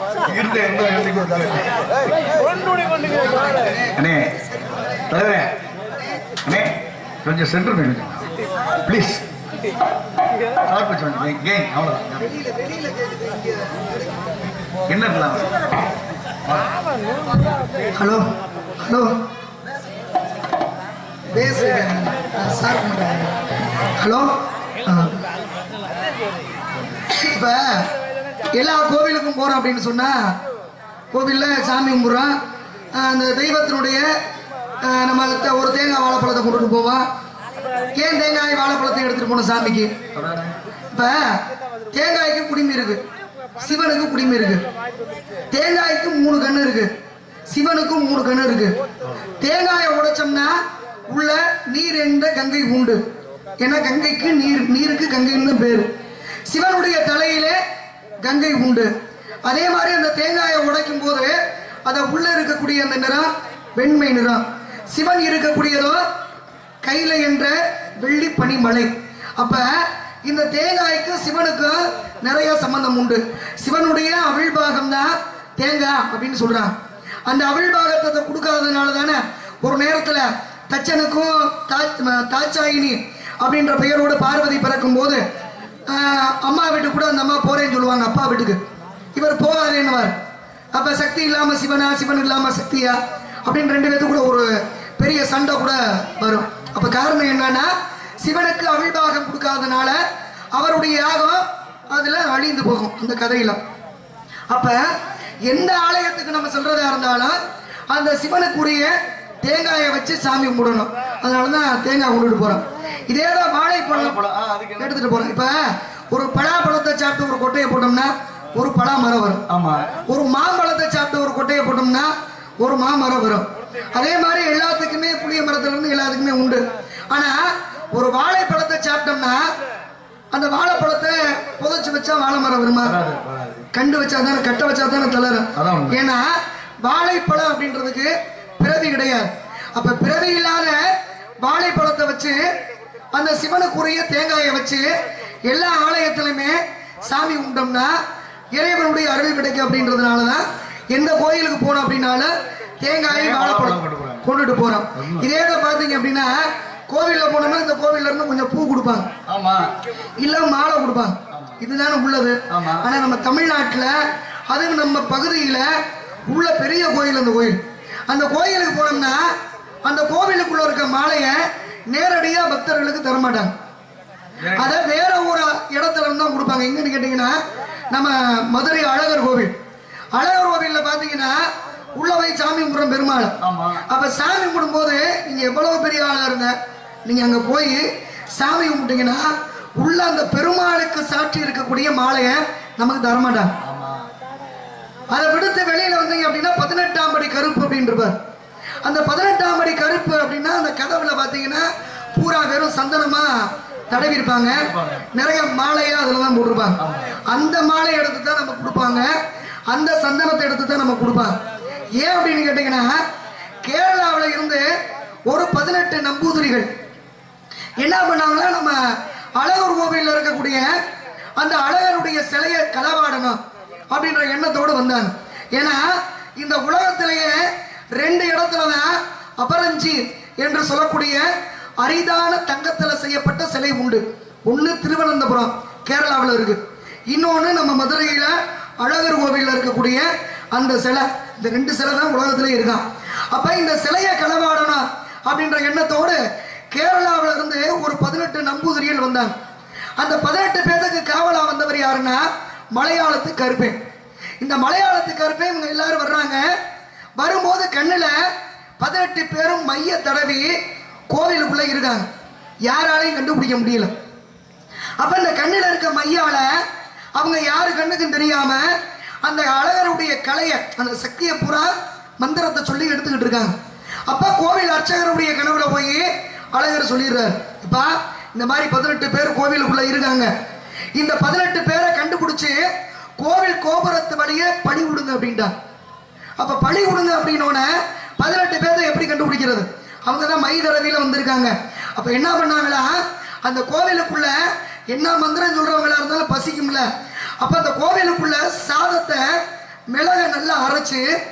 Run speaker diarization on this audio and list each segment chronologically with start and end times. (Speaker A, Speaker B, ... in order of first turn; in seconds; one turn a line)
Speaker A: 0.3-1.8
Speaker A: 4.0-4.3
Speaker A: 4.9-5.5
Speaker A: 6.4-8.3
Speaker A: 8.8-9.2
Speaker A: 10.7-12.3
Speaker B: 12.3-13.7
Speaker A: 14.9-15.7
Speaker B: 18.0-19.2
Speaker B: 21.3-23.4
Speaker B: 24.0-25.2
Speaker B: 27.1-27.9
Speaker B: 28.5-30.3
Speaker B: 31.1-32.4
Speaker B: 32.9-34.2
Speaker B: 34.8-37.1
Speaker B: 38.0-39.9
Speaker A: 40.1-40.5
Speaker B: 40.9-43.0
Speaker B: 43.6-44.6
Speaker B: 45.5-46.9
Speaker B: 47.5-48.8
Speaker B: 49.4-53.0
Speaker B: 53.6-55.9
Speaker B: 56.5-57.6
Speaker B: 58.2-58.9
Speaker B: 59.5-66.1
Speaker B: 66.8-76.8
Speaker B: 77.2-85.2
Speaker B: 85.9-88.6
Speaker B: 89.1-90.2
Speaker B: 90.7-103.6
Speaker B: 104.5-104.9
Speaker B: 105.5-107.4
Speaker B: 107.9-114.2
Speaker A: 113.9-115.4
Speaker B: 114.8-119.5
Speaker A: 119.5-119.9
Speaker B: 120.1-129.5
Speaker B: 130.3-133.0
Speaker A: 132.8-133.7
Speaker B: 133.7-142.5
Speaker A: 135.6-136.0
Speaker B: 143.1-144.9
Speaker B: 145.5-148.0
Speaker B: 148.5-159.1
Speaker A: 153.1-154.2
Speaker A: 154.9-155.3
Speaker A: 159.3-159.7
Speaker B: 160.2-169.3
Speaker A: 161.3-161.6
Speaker A: 162.5-162.9
Speaker B: 169.8-173.5
Speaker A: 174.4-174.7
Speaker B: 174.5-177.4
Speaker B: 177.9-179.5
Speaker B: 180.1-181.5
Speaker B: 182.0-186.6
Speaker A: 183.4-183.8
Speaker B: 187.1-193.5
Speaker A: 193.6-194.1
Speaker B: 195.1-198.2
Speaker B: 198.8-209.2
Speaker A: 204.5-205.1
Speaker A: 206.8-207.2
Speaker B: 209.7-211.4
Speaker B: 212.0-213.0
Speaker B: 213.6-214.7
Speaker B: 215.3-216.7
Speaker B: 217.8-220.8
Speaker B: 221.4-223.4
Speaker B: 223.9-231.3
Speaker B: 231.8-246.2
Speaker B: 246.7-249.3
Speaker B: 250.0-253.8
Speaker B: 254.4-256.5
Speaker B: 257.2-258.3
Speaker B: 258.8-260.6
Speaker B: 261.1-262.1
Speaker B: 262.6-263.9
Speaker B: 265.0-266.6
Speaker B: 267.2-273.6
Speaker B: 274.1-280.3
Speaker B: 281.0-282.6
Speaker B: 283.2-285.5
Speaker B: 286.4-296.9
Speaker B: 297.4-301.1